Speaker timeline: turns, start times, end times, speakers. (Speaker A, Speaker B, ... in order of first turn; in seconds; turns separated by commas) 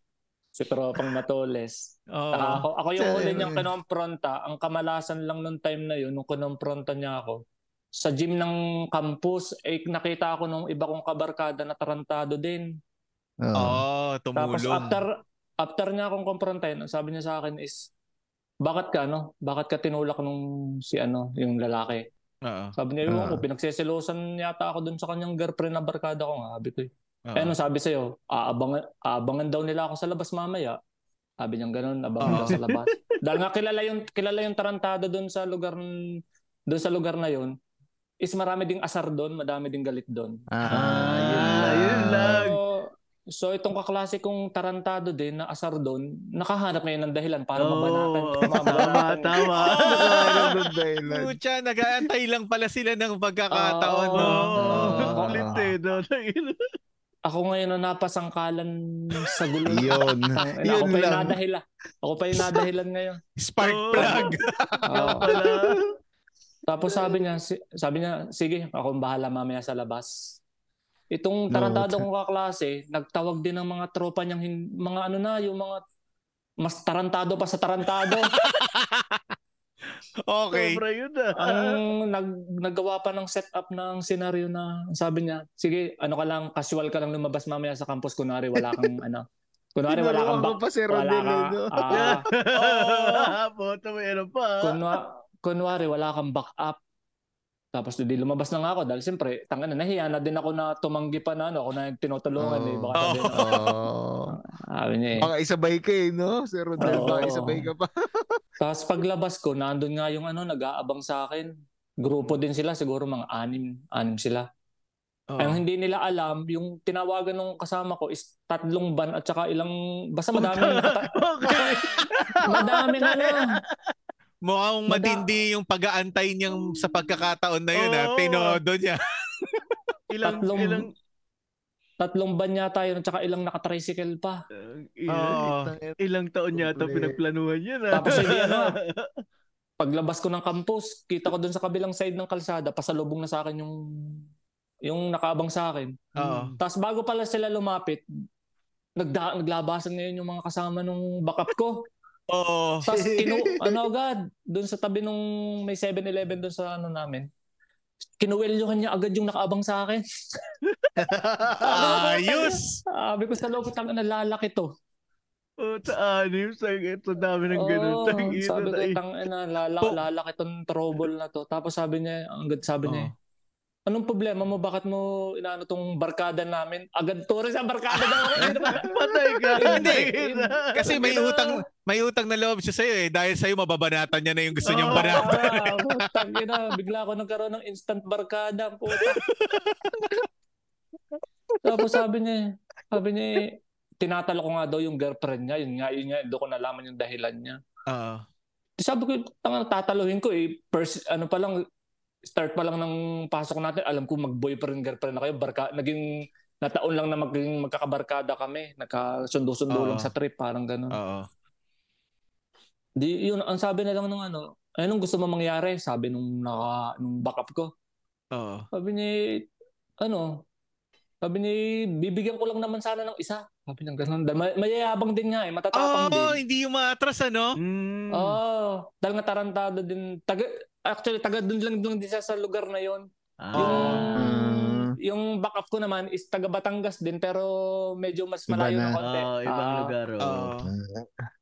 Speaker A: 0.6-7.4, Speaker B: 2.1-2.6, Speaker C: 3.0-3.7, Speaker A: 8.0-12.7, Speaker C: 13.4-13.8, Speaker B: 13.6-15.0, Speaker A: 14.4-15.1, Speaker A: 15.6-17.9, Speaker A: 18.6-22.1, Speaker B: 22.4-22.8, Speaker A: 22.8-30.8, Speaker C: 23.1-23.4, Speaker B: 27.3-27.6, Speaker A: 31.4-35.9, Speaker B: 32.2-32.5, Speaker D: 32.3-33.0, Speaker A: 36.7-37.5, Speaker A: 38.2-40.4, Speaker C: 40.5-42.4, Speaker D: 40.7-42.6, Speaker A: 42.2-49.7, Speaker D: 47.6-50.6, Speaker B: 49.8-50.5, Speaker C: 49.8-51.4, Speaker B: 51.1-55.0, Speaker A: 53.5-55.5, Speaker D: 54.2-56.6, Speaker C: 54.6-55.7, Speaker A: 57.3-63.2, Speaker C: 59.7-61.4, Speaker B: 63.4-65.2, Speaker D: 63.6-64.3, Speaker A: 64.9-65.4, Speaker D: 65.0-65.8, Speaker A: 66.7-70.4, Speaker A: 71.1-75.8, Speaker C: 71.5-72.1, Speaker A: 76.6-78.3, Speaker B: 78.1-79.2, Speaker B: 80.3-80.8, Speaker D: 80.5-81.8, Speaker A: 81.4-89.2, Speaker A: 89.8-92.3, Speaker C: 89.9-92.2, Speaker D: 91.9-95.0, Speaker B: 92.5-93.3, Speaker A: 94.6-96.8, Speaker A: 97.7-103.7, Speaker C: 102.4-104.4, Speaker B: 103.0-103.6, Speaker A: 104.3-105.3, Speaker C: 105.2-107.9, Speaker A: 106.8-107.7, Speaker D: 106.8-107.4, Speaker A: 108.6-111.5, Speaker A: 112.0-114.5, Speaker B: 115.4-115.6, Speaker A: 115.4-121.9, Speaker D: 120.4-123.8, Speaker A: 122.5-123.5, Speaker B: 124.5-129.8, Speaker A: 124.9-125.2, Speaker D: 127.8-128.6, Speaker D: 130.1-130.9, Speaker A: 130.2-130.9, Speaker A: 132.0-134.4, Speaker D: 134.6-135.5, Speaker B: 135.1-135.7, Speaker C: 135.5-136.0, Speaker D: 136.0-139.1, Speaker C: 136.6-137.2, Speaker A: 137.9-138.8, Speaker A: 139.8-144.2, Speaker A: 144.8-146.1, Speaker B: 146.2-146.6, Speaker D: 146.2-146.6, Speaker A: 146.6-148.0, Speaker A: 149.0-151.9, Speaker B: 152.3-152.9, Speaker A: 152.8-157.3, Speaker C: 153.2-153.8, Speaker A: 158.2-160.0, Speaker C: 161.0-161.8, Speaker B: 161.6-162.8, Speaker A: 161.6-164.7, Speaker D: 165.6-169.0, Speaker A: 167.5-173.1, Speaker B: 172.8-173.1, Speaker A: 173.9-178.9, Speaker B: 177.9-178.6, Speaker D: 178.8-181.6, Speaker A: 179.6-181.1, Speaker B: 179.7-180.1, Speaker B: 180.8-186.1, Speaker D: 184.7-185.3, Speaker A: 184.7-189.3, Speaker B: 189.2-189.9, Speaker A: 191.6-197.6, Speaker B: 197.9-198.2, Speaker A: 198.8-201.6, Speaker A: 202.3-206.1, Speaker A: 206.6-211.0, Speaker B: 209.7-210.1, Speaker B: 210.9-211.3, Speaker A: 213.0-217.7, Speaker B: 218.3-218.7, Speaker A: 218.7-219.1, Speaker A: 220.0-220.4, Speaker A: 221.2-226.4, Speaker B: 225.7-227.6, Speaker D: 227.6-228.4, Speaker A: 228.1-239.9, Speaker D: 233.4-234.2, Speaker B: 233.6-234.1, Speaker C: 234.2-234.9, Speaker C: 238.5-239.0, Speaker D: 239.0-240.5, Speaker B: 240.2-240.7, Speaker C: 240.6-241.1